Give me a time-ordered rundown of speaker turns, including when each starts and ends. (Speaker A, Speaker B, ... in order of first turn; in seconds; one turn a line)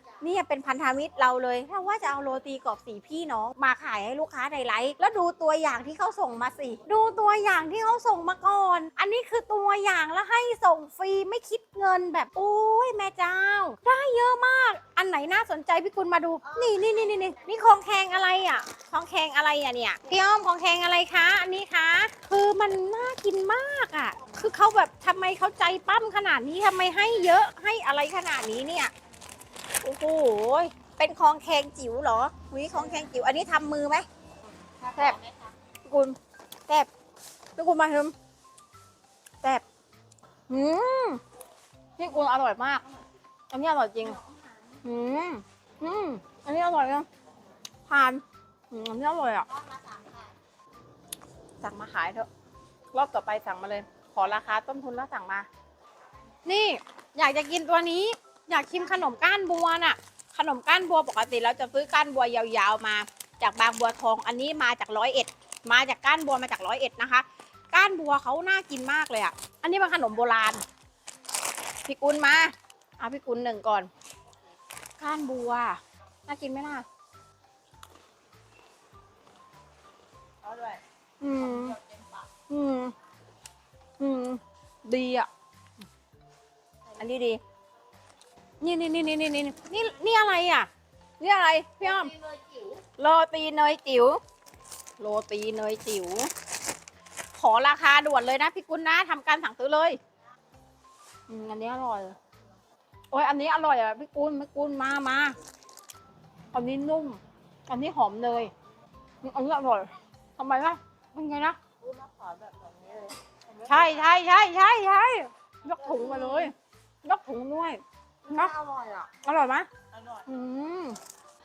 Speaker A: 0.2-28.9
Speaker A: 29.8-34.1
Speaker B: 34.8-35.3
Speaker A: 34.9-35.2
Speaker A: 35.9-36.2
Speaker A: 37.6-38.1
Speaker A: 40.5-41.2
Speaker A: 42.0-42.9
Speaker A: 43.5-44.2
Speaker A: 44.8-47.1
Speaker A: 47.9-49.5
Speaker B: 49.5-50.3
Speaker A: 51.6-52.3
Speaker A: 52.9-55.5
Speaker A: 56.5-70.6
Speaker A: 71.9-73.9
Speaker A: 75.0-76.9
Speaker B: 80.4-80.8
Speaker A: 81.2-81.8
Speaker A: 82.5-83.0
Speaker A: 84.0-85.3
Speaker A: 87.0-87.4
Speaker A: 88.6-90.7
Speaker A: 91.2-92.1
Speaker B: 92.1-92.8
Speaker A: 93.0-94.2
Speaker A: 95.0-96.3
Speaker A: 97.3-100.0
Speaker A: 101.3-102.2
Speaker A: 103.1-105.4
Speaker A: 106.5-108.5
Speaker A: 109.2-111.6
Speaker B: 111.8-113.8
Speaker A: 113.6-118.5
Speaker B: 115.9-116.5
Speaker B: 118.3-119.1
Speaker A: 119.2-119.7
Speaker B: 120.0-120.2
Speaker A: 120.3-121.0